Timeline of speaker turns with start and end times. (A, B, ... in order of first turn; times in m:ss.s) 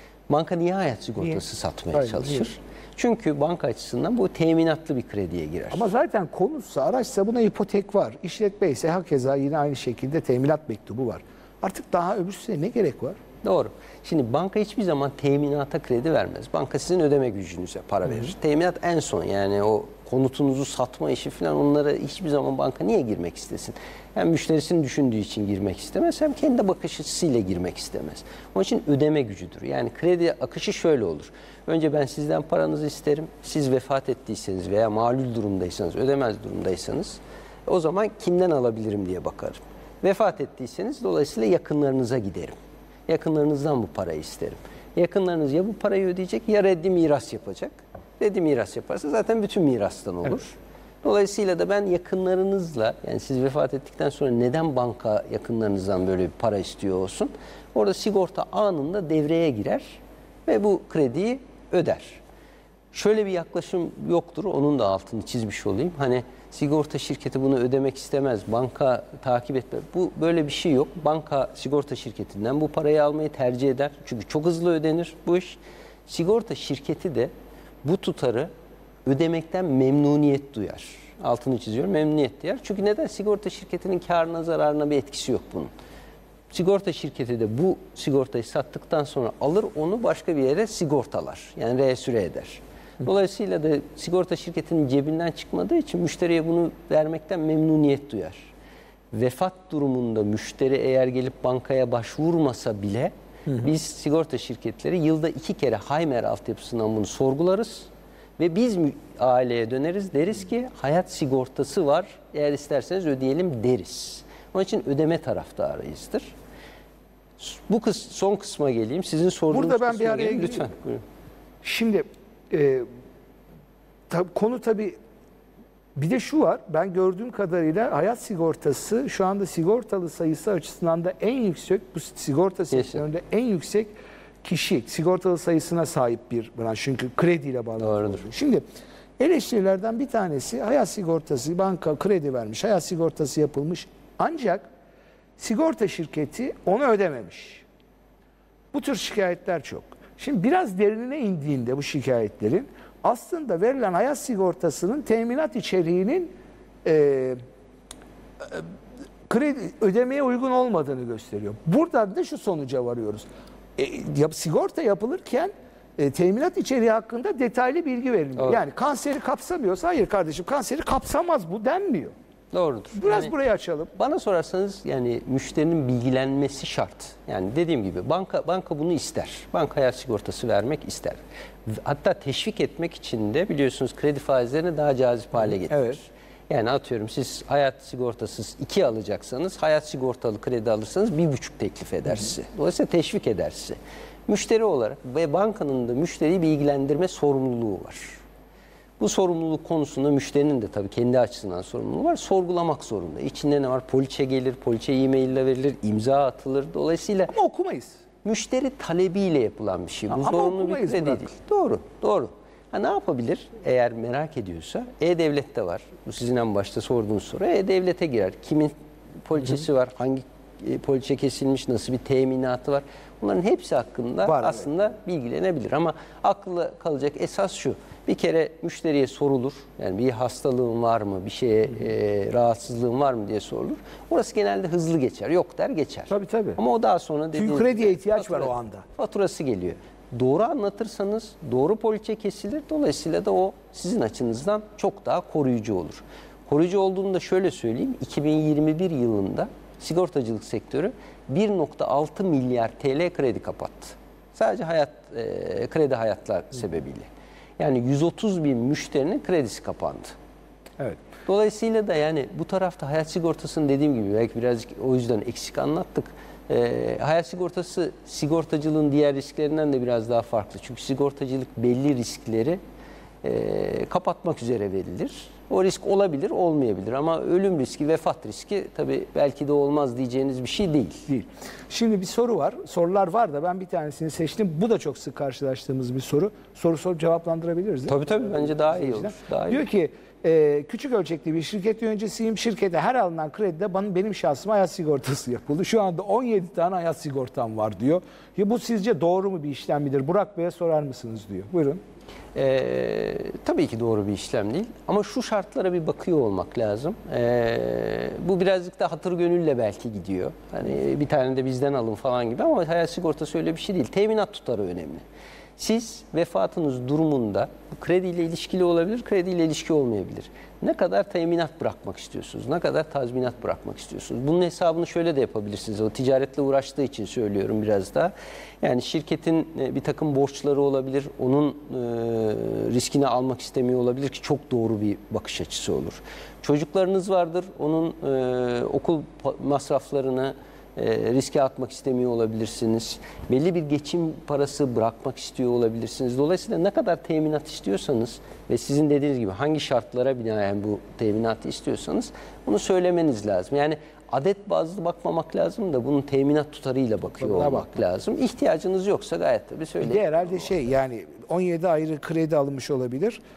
0:00.3-0:05.9 A
0:01.9-0:02.4 B
0:05.7-0:13.2 B
0:13.4-0:42.6 A
0:18.0-0:18.3 B
0:43.1-1:02.2 A
1:02.9-1:17.3 A
1:17.8-1:18.5 A
1:19.0-1:25.7 A
1:26.5-1:38.5 A
1:39.1-1:56.3 A
1:57.4-2:01.0 A
1:59.5-2:00.7 B
2:01.6-2:02.9 B
2:04.1-2:05.0 B
2:06.0-2:18.6 B
2:12.7-2:13.0 A
2:17.8-2:18.2 A
2:19.2-2:24.6 B
2:25.4-2:27.6 B
2:28.7-2:36.3 B
2:36.8-2:37.4 B
2:38.4-2:38.7 B
2:39.3-2:52.1 B
2:52.5-2:53.3 A
2:52.9-2:53.9 B
2:53.9-3:18.2 A
3:05.7-3:06.0 B
3:19.0-3:27.4 A
3:27.3-3:28.0 B
3:28.2-4:20.1 A
3:30.1-3:31.3 B
3:44.2-3:44.7 B
3:56.1-3:56.6 B
3:57.3-3:58.8 B
4:21.2-4:32.6 A
4:33.2-4:41.0 A
4:41.1-5:01.8 B
4:47.9-4:49.6 A
5:02.3-5:15.0 A
5:15.6-6:00.6 A
5:57.2-5:57.7 B
5:59.8-6:03.2 B